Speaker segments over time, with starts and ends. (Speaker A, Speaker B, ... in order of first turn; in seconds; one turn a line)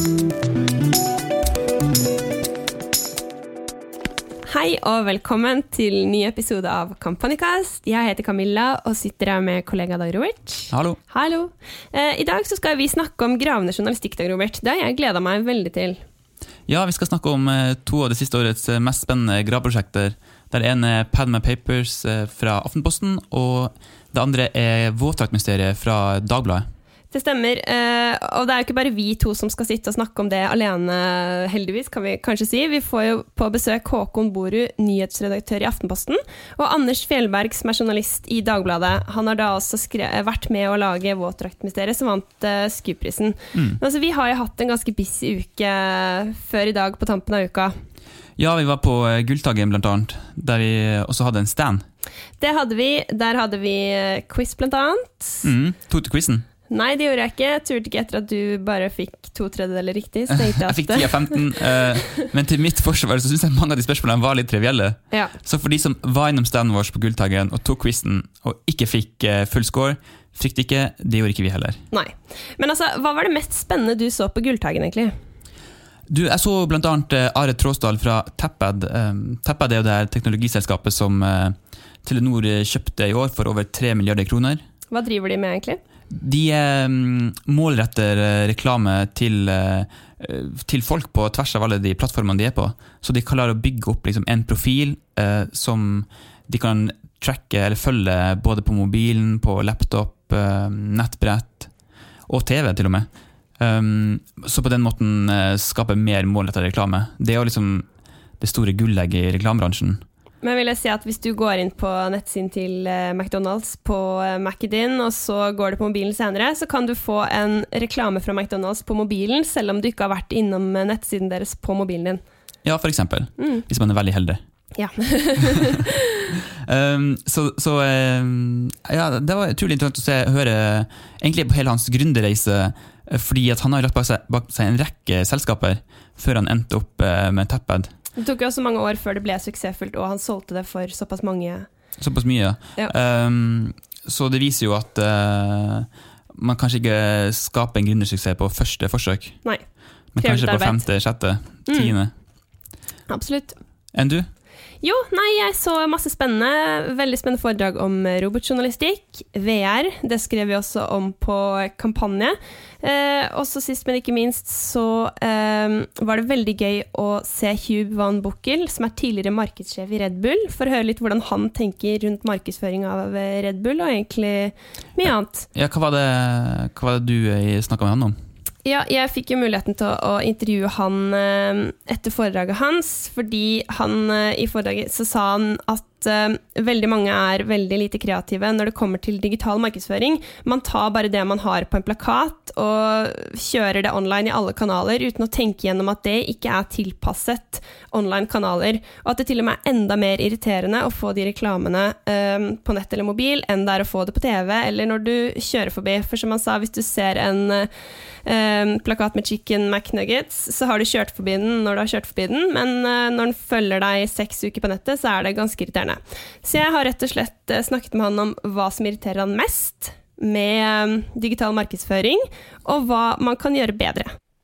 Speaker A: 4.5-16.0
Speaker B: 10.7-11.0
Speaker B: 16.7-26.7
Speaker A: 27.1-47.7
Speaker B: 43.5-43.8
Speaker B: 48.4-51.9
Speaker A: 52.4-55.4
Speaker B: 55.4-56.4
Speaker A: 56.7-61.6
Speaker B: 60.3-71.8
Speaker A: 71.9-75.1
Speaker B: 76.1-84.6
Speaker A: 84.9-85.8
Speaker B: 86.1-101.7
Speaker B: 102.2-103.1
Speaker B: 103.6-107.9
Speaker B: 108.4-110.0
Speaker A: 110.4-122.2
Speaker B: 122.6-124.4
Speaker A: 124.8-125.9
Speaker B: 126.7-137.9
Speaker A: 138.2-141.7
Speaker B: 142.0-149.4
Speaker B: 150.1-152.1
Speaker A: 150.2-150.9
Speaker A: 151.7-151.9
Speaker A: 153.1-153.6
Speaker B: 153.9-154.3
Speaker A: 154.8-175.5
Speaker B: 175.5-178.2
Speaker A: 178.6-207.7
Speaker A: 208.2-224.1